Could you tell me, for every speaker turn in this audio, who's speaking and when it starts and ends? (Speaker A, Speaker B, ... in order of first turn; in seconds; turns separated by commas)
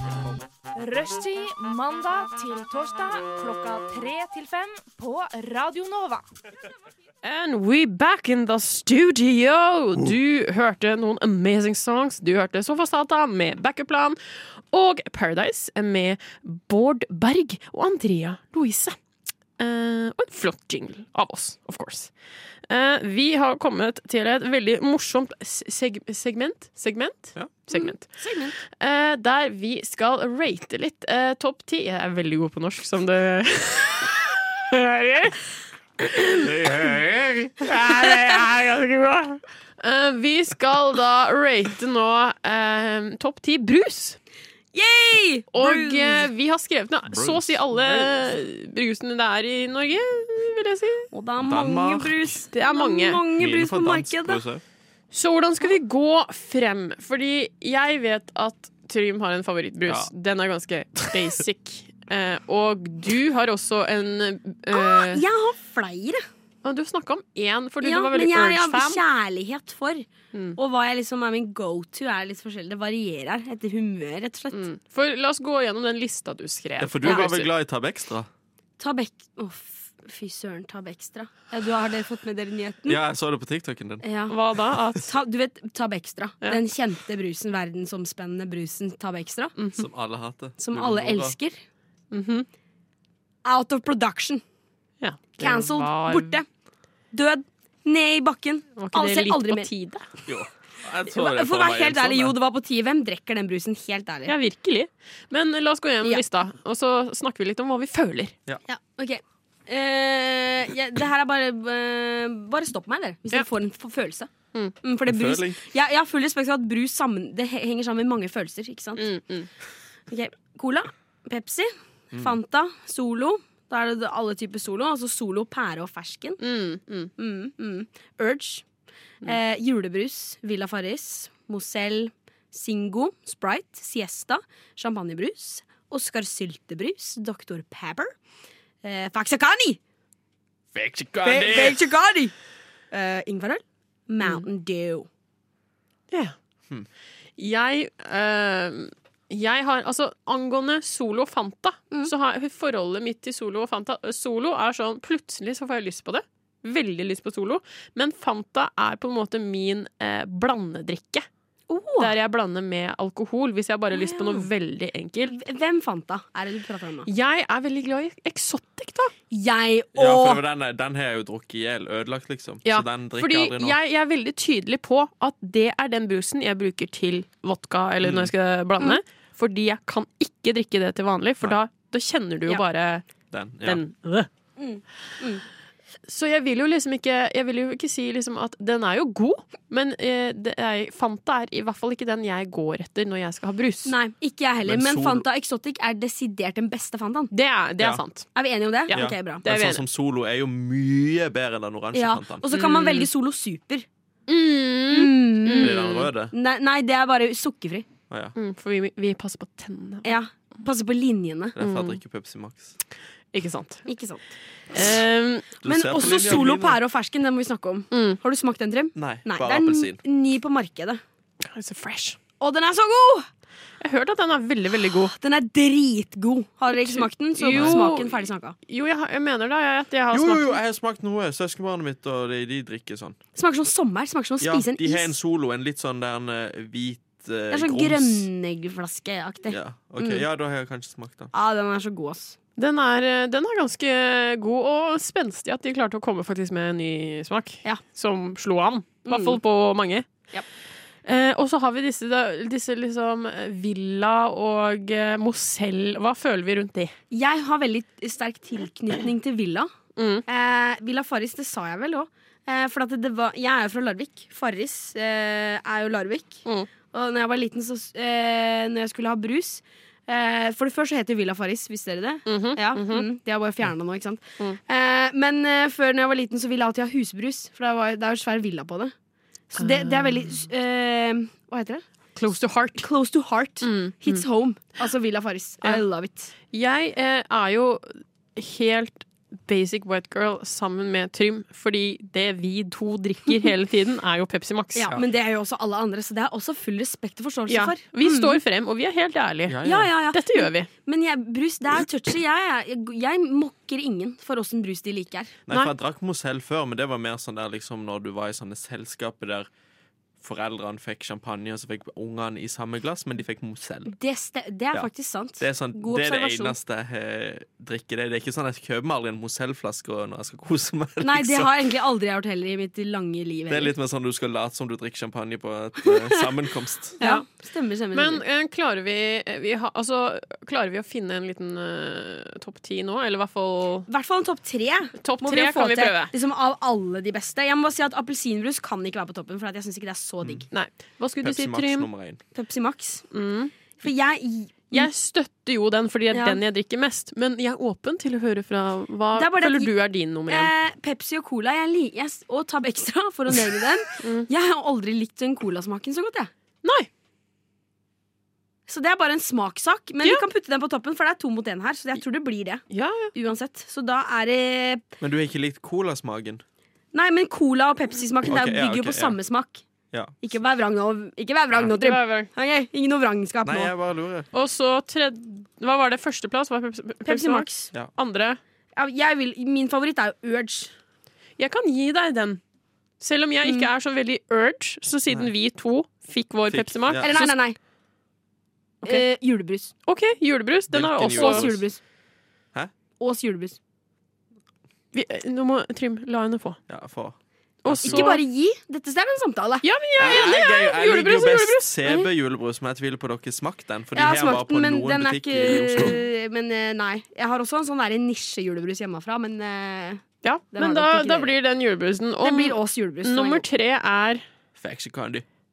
Speaker A: 0.8-6.2, Speaker B: 7.2-14.2, Speaker B: 14.7-19.0, Speaker B: 19.6-22.1, Speaker B: 22.7-28.1, Speaker C: 27.7-28.6, Speaker B: 28.8-35.4, Speaker B: 36.1-36.4, Speaker D: 36.4-37.7, Speaker B: 37.6-44.2, Speaker C: 44.7-46.3, Speaker B: 45.5-51.1, Speaker D: 47.1-48.3, Speaker C: 51.1-54.4, Speaker D: 51.4-52.4, Speaker B: 52.5-53.2, Speaker D: 53.4-54.6, Speaker B: 55.1-65.2, Speaker C: 64.7-66.2, Speaker B: 66.6-69.0, Speaker C: 67.8-74.7, Speaker B: 70.3-70.6, Speaker B: 74.5-77.5, Speaker D: 76.8-78.3, Speaker C: 78.8-83.0, Speaker D: 82.9-84.1, Speaker C: 84.0-84.3, Speaker B: 84.3-85.1, Speaker C: 85.0-89.6, Speaker B: 89.6-89.9, Speaker D: 89.8-91.4, Speaker C: 90.6-91.6, Speaker B: 92.1-92.5, Speaker C: 93.5-94.4, Speaker B: 95.0-96.4, Speaker C: 95.4-96.5, Speaker C: 97.1-99.8, Speaker B: 98.8-100.0, Speaker D: 100.3-102.3, Speaker C: 101.1-104.3, Speaker B: 104.3-108.3, Speaker C: 108.7-114.3, Speaker C: 114.8-119.1, Speaker D: 115.1-115.6, Speaker B: 119.0-119.5, Speaker C: 120.1-126.4, Speaker B: 126.4-127.1, Speaker C: 127.2-128.7, Speaker C: 129.2-138.1, Speaker C: 138.8-139.8, Speaker D: 140.8-141.8, Speaker C: 141.2-142.3, Speaker C: 142.9-145.1, Speaker B: 147.4-161.3, Speaker C: 161.7-162.2, Speaker B: 162.0-165.4, Speaker C: 163.9-164.5, Speaker C: 165.3-167.1, Speaker B: 167.1-169.1, Speaker C: 169.3-170.4, Speaker D: 170.0-173.8, Speaker B: 172.7-183.1, Speaker D: 178.0-178.3, Speaker D: 183.3-183.8, Speaker B: 183.6-184.3, Speaker C: 184.6-185.4, Speaker B: 186.1-193.9, Speaker C: 193.9-197.3, Speaker D: 194.7-195.2, Speaker B: 197.3-198.3, Speaker C: 198.3-199.4, Speaker B: 198.9-199.8, Speaker D: 198.9-202.4, Speaker C: 201.9-203.9, Speaker B: 202.5-203.1, Speaker B: 204.3-205.8, Speaker C: 204.9-207.9, Speaker D: 205.6-206.3, Speaker D: 208.1-208.3, Speaker B: 208.3-210.2, Speaker C: 210.1-211.6, Speaker D: 211.6-212.8, Speaker B: 211.6-212.0, Speaker B: 213.3-213.9, Speaker C: 213.9-214.2, Speaker B: 214.7-215.5, Speaker D: 215.6-216.8, Speaker C: 215.6-221.0, Speaker B: 217.9-218.2, Speaker D: 219.0-220.0, Speaker B: 221.5-222.2, Speaker C: 222.4-223.3, Speaker B: 223.8-225.1, Speaker C: 225.2-228.6, Speaker B: 226.8-230.6, Speaker D: 227.5-227.8, Speaker D: 230.1-233.2, Speaker C: 233.4-235.2, Speaker D: 234.4-238.3, Speaker C: 237.5-240.2, Speaker D: 239.5-241.3, Speaker C: 241.3-242.4, Speaker B: 242.6-250.1, Speaker C: 249.1-249.4, Speaker B: 251.1-256.9, Speaker C: 257.1-259.7, Speaker B: 260.0-260.2, Speaker C: 260.3-278.9, Speaker B: 272.3-273.1, Speaker C: 279.5-281.8, Speaker B: 279.6-280.1, Speaker B: 282.2-282.9, Speaker C: 282.8-286.3, Speaker B: 283.6-284.2, Speaker B: 286.5-295.0, Speaker C: 294.8-298.4, Speaker B: 297.5-300.7, Speaker D: 299.5-299.9, Speaker C: 299.6-305.4, Speaker D: 305.5-309.5, Speaker D: 310.2-313.9, Speaker C: 313.9-316.6, Speaker D: 315.4-321.5, Speaker C: 321.0-323.7, Speaker D: 323.5-327.0, Speaker B: 327.0-327.2, Speaker C: 327.0-328.2, Speaker B: 327.9-333.9, Speaker C: 333.9-340.5, Speaker B: 335.0-336.1, Speaker B: 340.5-341.9, Speaker D: 341.2-342.2, Speaker C: 342.3-343.1, Speaker B: 343.1-343.5, Speaker C: 343.8-344.9, Speaker B: 344.7-350.5, Speaker C: 346.1-346.4, Speaker C: 349.1-349.7, Speaker C: 350.3-356.3, Speaker B: 354.0-354.3, Speaker B: 356.6-356.9, Speaker C: 358.7-364.9, Speaker B: 362.7-363.1, Speaker D: 365.0-366.4, Speaker C: 366.9-369.6, Speaker D: 368.2-369.2, Speaker C: 370.2-373.7, Speaker B: 371.7-372.3, Speaker D: 373.5-374.3, Speaker B: 374.3-378.4, Speaker C: 377.1-377.7, Speaker C: 378.8-380.7, Speaker B: 381.4-382.4, Speaker B: 383.0-387.4, Speaker C: 383.4-383.7, Speaker D: 386.5-387.1, Speaker C: 387.0-387.6, Speaker C: 388.8-389.7, Speaker B: 389.9-391.5, Speaker D: 390.7-391.6, Speaker C: 391.1-391.8, Speaker C: 393.0-393.6, Speaker B: 394.9-396.6, Speaker D: 396.7-397.2, Speaker B: 397.6-398.2, Speaker D: 397.7-398.1, Speaker C: 397.8-399.6, Speaker B: 399.6-401.7, Speaker D: 400.0-406.0, Speaker C: 401.8-402.1, Speaker C: 403.9-411.4, Speaker B: 410.2-414.2, Speaker C: 412.2-413.4, Speaker D: 414.6-415.2